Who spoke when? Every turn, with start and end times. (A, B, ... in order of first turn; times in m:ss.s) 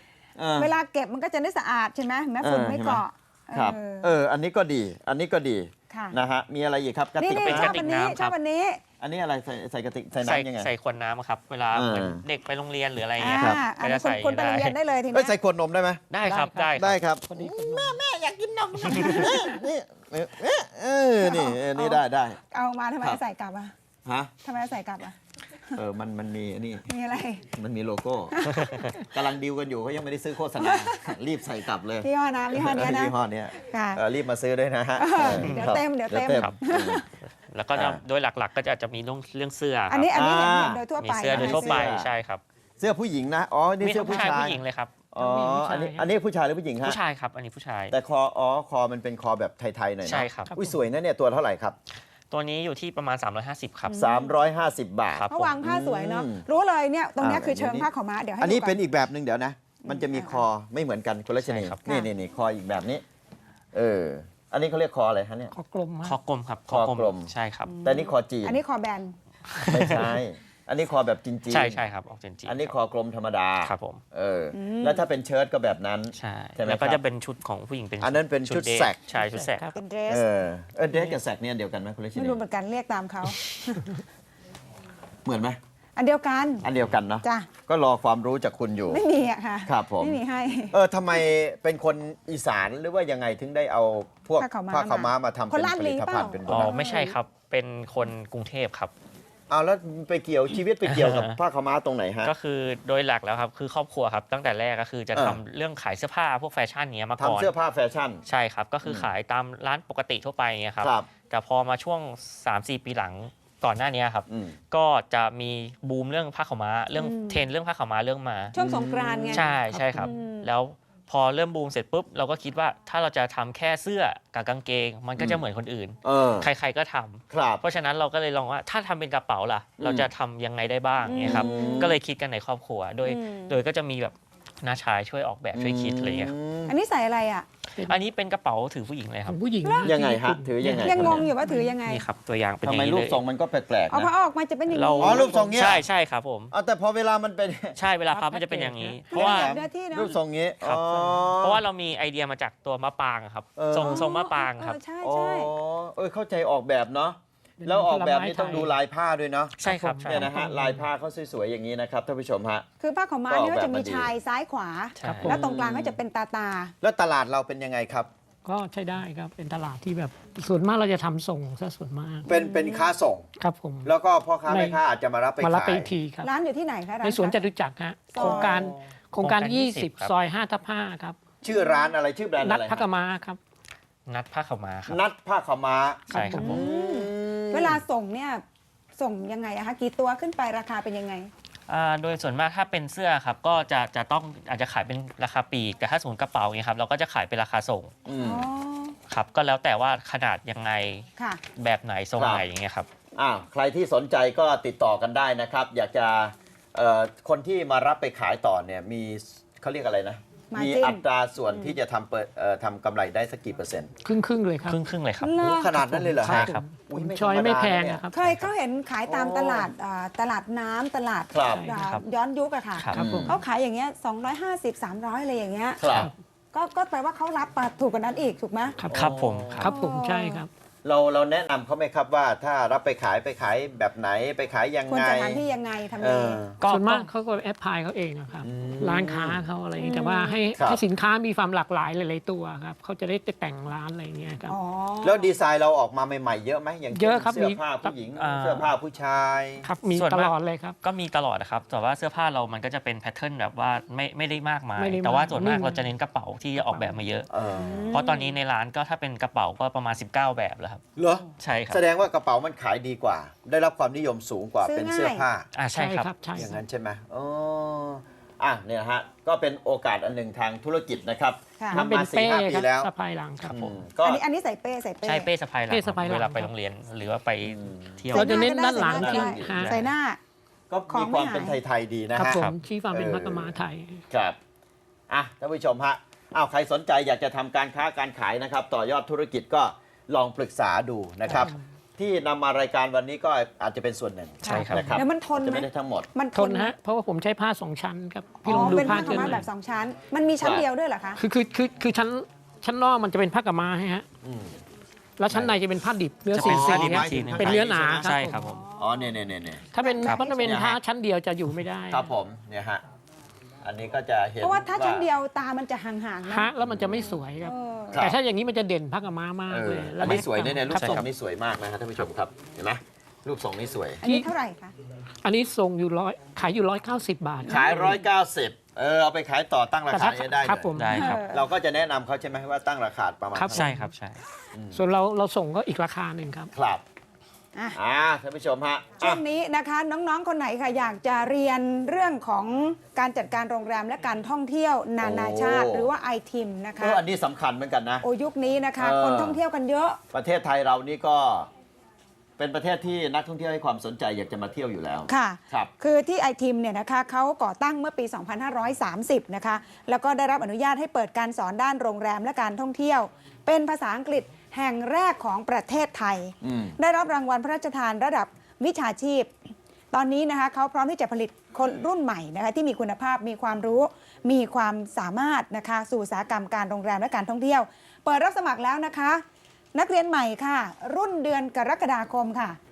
0:00.4-0:00.7 A
0:00.6-0:04.1 B
0:02.4-0:07.8 A
0:05.9-0:06.2 B
0:07.2-0:08.8 B
0:07.3-0:08.4 C
0:09.0-0:10.7 A
0:10.2-0:14.8 C
0:11.7-0:12.2 A
0:13.2-0:15.4 B
0:13.3-0:13.6 A
0:15.1-0:16.0 A
0:16.1-0:17.0 C
0:16.2-0:18.0 D
0:16.8-0:22.4 A
0:18.9-0:19.3 C
0:18.9-0:19.3 B
0:21.2-0:23.7 B
0:24.0-0:24.3 A
0:24.4-0:25.2 B
0:25.8-0:26.8 A
0:26.9-0:27.5 B
0:27.5-0:37.0 A
0:28.3-0:28.9 B
0:30.6-0:31.1 B
0:32.0-0:34.0 B
0:35.0-0:37.0 B
0:35.4-0:35.8 C
0:36.3-0:36.6 C
0:37.5-0:40.1 C
0:37.7-0:38.0 A
0:39.9-0:41.8 B
0:40.1-0:42.1 A
0:41.0-0:42.4 C
0:42.8-0:47.0 A
0:43.8-0:45.0 C
0:44.0-0:44.4 D
0:45.2-0:46.1 D
0:46.8-0:48.0 C
0:47.9-0:51.8 A
0:50.0-0:50.5 C
0:50.5-0:50.8 D
0:52.3-0:54.0 C
0:53.9-0:54.4 B
0:53.9-0:56.4 A
0:55.1-0:55.5 C
0:55.3-0:58.8 B
0:57.2-0:57.9 A
0:58.4-1:03.0 A
0:59.8-1:00.4 B
1:01.4-1:01.8 C
1:01.8-1:02.1 B
1:03.7-1:05.5 A
1:05.5-1:06.2 D
1:06.0-1:07.7 C
1:06.7-1:07.3 A
1:07.6-1:09.2 B
1:07.8-1:08.6 A
1:09.6-1:10.1 C
1:09.7-1:11.9 A
1:11.5-1:12.7 C
1:12.5-1:17.0 A
1:13.6-1:14.0 C
1:14.5-1:15.0 B
1:16.1-1:19.7 C
1:18.0-1:19.0 A
1:19.1-1:19.8 D
1:19.8-1:20.3 B
1:20.1-1:22.4 A
1:22.2-1:24.0 B
1:25.2-1:25.6 A
1:26.0-1:26.7 B
1:26.6-1:29.0 A
1:27.2-1:27.5 B
1:28.9-1:30.8 B
1:29.7-1:30.2 A
1:30.7-1:36.7 A
1:34.4-1:37.2 B
1:36.5-1:38.9 C
1:39.5-1:42.3 A
1:40.8-1:41.4 C
1:42.2-1:47.5 C
1:45.1-1:45.4 A
1:47.2-1:48.2 A
1:48.3-1:58.6 C
1:48.8-1:49.1 A
1:50.8-1:51.1 A
1:54.3-1:54.6 A
1:57.0-1:57.4 B
1:58.5-2:00.5 B
1:58.6-1:59.9 A
1:59.3-2:16.3 C
2:05.2-2:05.4 A
2:06.0-2:06.5 A
2:07.3-2:07.6 A
2:09.8-2:10.1 A
2:11.0-2:11.9 B
2:11.2-2:12.0 A
2:13.0-2:13.6 B
2:15.5-2:16.8 A
2:16.7-2:17.5 B
2:17.8-2:19.4 C
2:19.3-2:21.8 D
2:19.6-2:19.9 B
2:19.8-2:21.2 A
2:20.8-2:22.0 B
2:21.0-2:21.3 C
2:21.8-2:23.2 C
2:22.6-2:24.1 A
2:23.9-2:25.6 B
2:24.7-2:26.5 C
2:25.0-2:25.8 A
2:26.5-2:27.8 A
2:27.8-2:29.6 C
2:28.1-2:29.1 D
2:29.1-2:30.1 B
2:29.1-2:31.6 A
2:30.1-2:34.8 C
2:33.6-2:34.1 A
2:33.8-2:35.5 B
2:35.0-2:42.7 A
2:37.6-2:38.7 D
2:39.6-2:40.3 C
2:39.6-2:40.8 D
2:42.8-2:46.7 B
2:43.3-2:44.1 A
2:45.0-2:45.4 C
2:45.0-2:45.4 D
2:45.2-2:46.0 A
2:46.8-2:48.1 A
2:48.4-2:52.3 D
2:52.2-2:53.3 A
2:52.3-2:52.9 B
2:53.4-2:53.9 D
2:53.8-2:55.9 A
2:54.5-2:54.8 D
2:55.4-2:56.3 D
2:56.2-2:57.4 B
2:57.0-3:01.2 D
2:58.1-2:58.7 B
2:58.2-2:58.8 A
2:59.2-3:00.1 C
3:01.4-3:02.9 A
3:01.5-3:01.8 B
3:02.4-3:03.4 D
3:04.1-3:05.0 C
3:04.9-3:07.8 A
3:06.1-3:06.6 C
3:06.1-3:06.6 D
3:06.4-3:08.4 B
3:09.0-3:11.3 B
3:11.7-3:17.9 C
3:18.1-3:18.5 A
3:18.2-3:19.0 B
3:19.1-3:22.9 C
3:21.2-3:21.4 B
3:22.2-3:22.5 A
3:23.2-3:33.9 A
3:30.5-3:31.8 B
3:34.0-3:34.8 D
3:34.6-3:35.3 C
3:35.2-3:35.8 B
3:35.4-3:38.5 A
3:35.7-3:38.3 D
3:36.2-3:36.6 C
3:38.1-3:45.9 B
3:39.0-3:39.7 A
3:41.3-3:41.7 A
3:41.4-3:41.9 D
3:41.7-3:42.0 C
3:42.8-3:43.0 C
3:42.9-3:43.4 D
3:42.9-3:43.4 A
3:45.8-3:46.1 A
3:46.5-3:48.8 B
3:48.8-3:50.5 D
3:48.9-3:49.7 A
3:48.9-3:49.7 C
3:49.6-3:50.4 B
3:50.8-3:55.4 A
3:54.9-3:56.4 B
3:56.0-3:56.6 A
3:56.6-3:57.1 C
3:56.6-4:04.6 D
3:58.4-3:59.4 A
3:59.8-4:00.4 B
4:00.6-4:00.8 A
4:04.5-4:05.3 B
4:05.0-4:09.7 A
4:06.9-4:08.0 D
4:08.2-4:08.7 C
4:09.6-4:10.8 D
4:09.9-4:17.3 C
4:14.8-4:15.9 D
4:16.6-4:17.0 D
4:17.3-4:17.9 A
4:17.5-4:18.4 B
4:17.9-4:20.8 C
4:21.0-4:25.5 A
4:21.4-4:21.8 C
4:24.6-4:25.3 B
4:25.6-4:26.3 C
4:25.7-4:26.6 D
4:26.3-4:32.9 A
4:31.7-4:33.7 D
4:33.4-4:34.2 A
4:34.0-4:35.3 B
4:35.0-4:38.5 C
4:35.7-4:36.5 D
4:37.4-4:39.7 A
4:38.1-4:40.2 B
4:38.1-4:39.8 D
4:39.6-4:39.9 C
4:40.7-4:43.6 A
4:40.9-4:41.6 B
4:42.2-4:44.0 D
4:42.3-4:42.6 C
4:44.1-4:44.4 A
4:45.1-4:56.1 A
4:51.3-4:51.6 D
4:54.4-4:56.7 B
4:54.5-4:55.0 C
4:56.3-4:59.5 D
4:58.4-5:01.2 B
4:58.5-4:59.4 A
5:00.4-5:00.7 A
5:01.2-5:04.1 D
5:04.2-5:04.6 A
5:05.2-5:08.5 D
5:05.3-5:05.6 A
5:06.3-5:08.6 C
5:06.4-5:08.2 A
5:08.3-5:09.0 B
5:08.8-5:09.6 A
5:09.7-5:12.1 D
5:09.8-5:10.6 B
5:10.4-5:10.8 A
5:11.9-5:12.8 A
5:13.6-5:15.1 A
5:14.4-5:18.1 B
5:16.2-5:21.0 D
5:16.6-5:17.1 A
5:17.9-5:18.2 A
5:19.5-5:24.0 A
5:20.7-5:21.1 C
5:24.0-5:24.7 B
5:24.0-5:24.3 D
5:25.2-5:28.0 D
5:27.4-5:28.0 B
5:27.5-5:33.7 A
5:29.9-5:31.2 D
5:30.8-5:31.2 C
5:30.9-5:31.5 B
5:33.3-5:33.9 D
5:33.5-5:34.2 C
5:34.5-5:34.8 A
5:34.7-5:36.5 D
5:36.5-5:36.8 A
5:37.7-5:39.2 A
5:39.0-5:47.0 B
5:45.0-5:45.9 A
5:46.8-5:48.0 A
5:48.0-5:50.0 B
5:48.8-5:49.4 A
5:50.1-5:51.5 A
5:52.4-5:55.7 A
5:55.1-6:09.3 B
6:06.4-6:06.8 A
6:09.9-6:19.2 B
6:19.7-6:22.6 B